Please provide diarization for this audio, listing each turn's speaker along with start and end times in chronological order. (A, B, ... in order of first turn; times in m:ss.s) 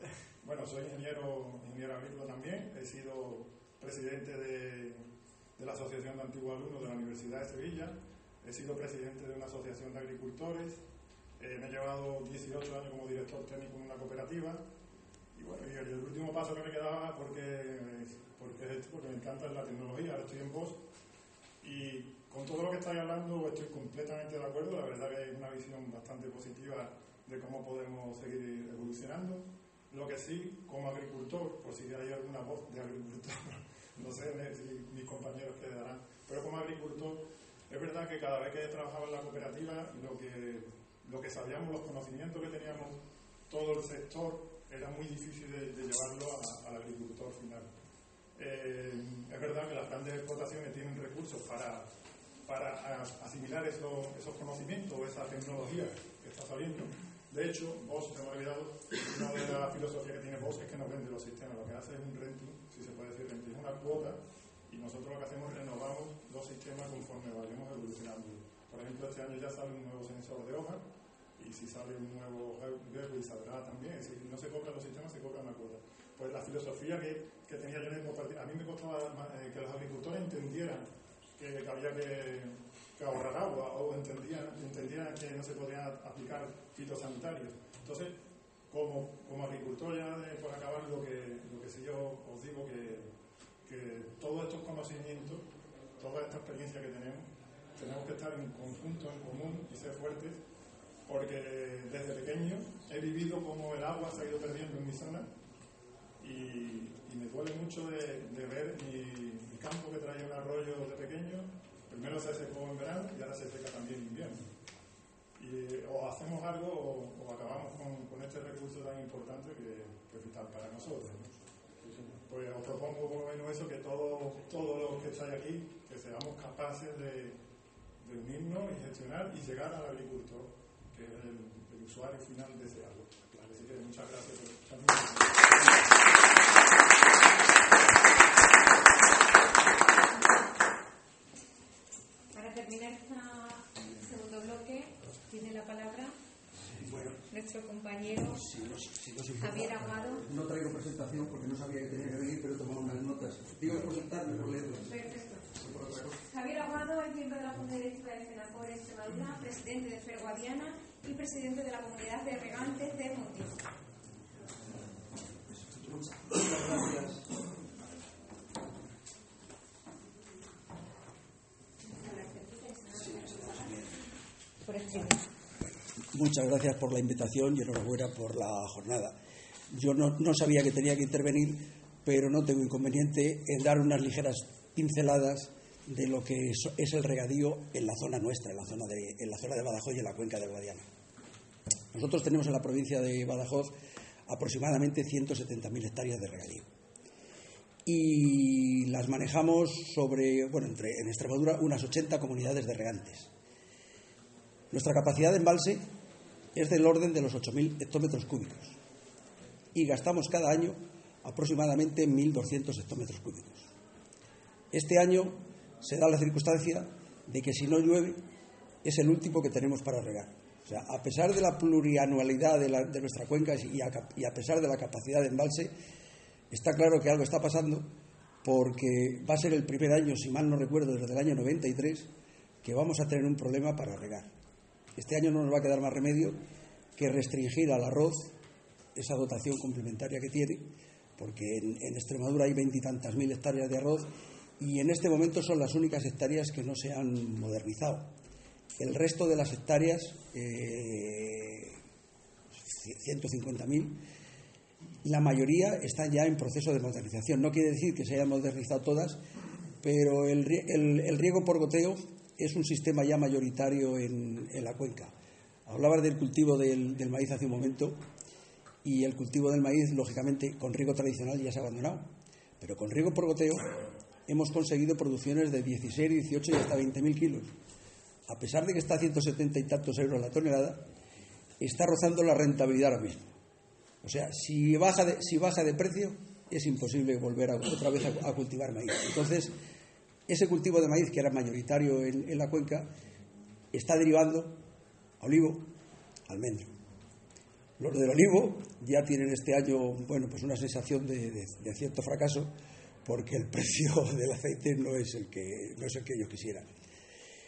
0:00.4-0:10.8 A
0:11.4-0:14.6 A
0:15.4-0:20.8 A
0:21.6-0:47.7 A
0:48.4-0:51.9 A
0:52.5-1:10.8 A
1:11.4-1:28.2 A
1:28.7-1:33.1 A
1:33.6-1:35.5 A
1:36.0-1:40.4 A
1:41.1-1:45.3 A
1:46.2-1:54.5 A
1:55.4-2:01.3 A
2:02.0-2:07.4 A
2:08.0-2:15.5 A
2:22.3-2:26.1 B
2:26.8-2:27.2 C
2:27.3-2:28.4 B
2:28.3-2:34.9 C
2:29.4-2:30.2 B
2:34.9-2:35.5 B
2:35.5-2:36.2 C
2:36.2-2:43.6 B
2:45.6-2:47.3 C
2:51.8-2:53.8 B
2:53.0-2:53.8 C
2:54.6-2:55.2 B
2:56.1-2:59.2 C
2:59.7-3:10.9 C
3:11.9-3:13.8 C
3:14.3-3:16.7 C
3:17.8-3:23.3 C
3:24.7-3:25.9 C
3:26.5-3:28.8 C
3:29.7-3:33.7 C
3:34.7-3:38.2 C
3:38.8-3:45.7 C
3:46.5-3:47.9 C
3:48.4-3:52.1 C
3:52.6-3:54.3 C
3:55.0-3:56.4 C
3:57.0-3:58.3 C
3:59.0-4:04.1 C
4:04.6-4:08.1 C
4:08.8-4:11.8 C
4:12.6-4:14.0 C
4:15.0-4:19.2 C
4:19.8-4:25.1 C
4:25.7-4:28.0 C
4:28.8-4:37.5 C
4:38.3-4:40.8 C
4:41.6-4:43.3 C
4:44.0-4:49.5 C
4:50.3-4:52.9 C
4:53.7-4:54.6 C
4:55.2-4:55.7 C
4:56.3-4:56.7 C
4:57.8-5:02.5 C
5:03.0-5:06.7 C